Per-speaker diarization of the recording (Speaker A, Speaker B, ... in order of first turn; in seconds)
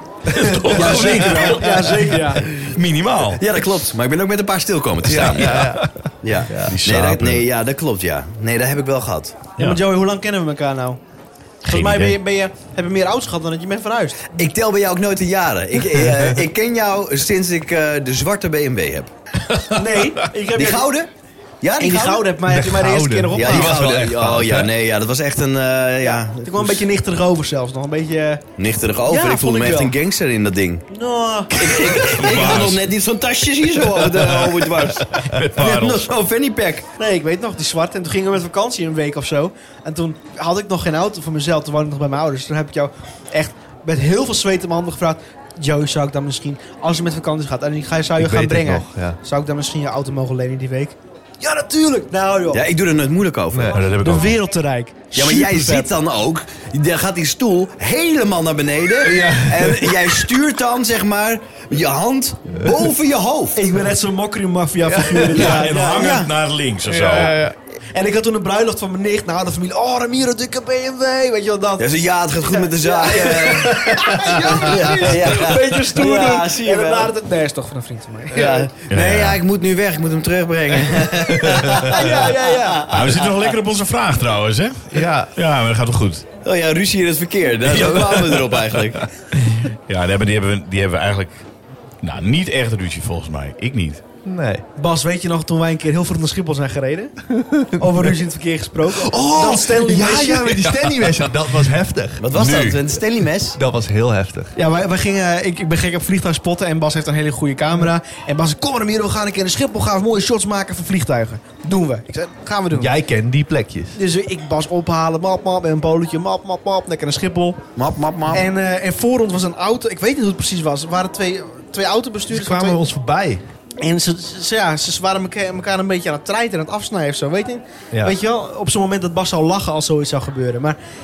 Speaker A: 0.2-3.4, 5.1-5.9, 6.6-7.5, 11.7-12.2, 31.9-32.8, 34.1-36.1, 53.7-54.4, 65.3-67.4, 78.9-79.4, 82.9-86.3, 89.4-91.4, 92.0-94.0
Speaker B: 0.3-1.5, 5.0-6.8, 16.0-16.3, 22.5-24.7, 48.2-49.2, 53.5-54.3, 59.0-60.2, 64.9-65.5, 66.9-67.6, 81.4-81.8, 84.9-85.3, 94.2-94.6, 97.3-98.0, 98.9-103.0, 103.5-104.5, 112.7-114.0, 122.3-123.4
Speaker C: 0.7-2.5, 9.6-11.0, 11.7-14.3, 19.7-20.9, 21.8-23.8, 26.0-28.4, 29.1-29.9, 30.9-32.4, 37.0-52.7, 54.0-55.9, 63.5-66.2, 67.9-78.7, 81.8-82.9, 94.8-97.1, 97.7-100.7, 104.6-112.9, 114.0-117.6, 118.3-122.8, 123.8-130.8
Speaker D: 3.4-9.4, 14.3-19.1, 20.5-21.1, 21.6-22.3, 23.3-26.9, 28.6-30.9, 31.5-36.9, 52.5-53.9, 55.1-63.6, 65.5-66.3, 71.8-77.1, 78.3-83.5, 86.4-89.1, 102.2-103.6, 117.8-118.5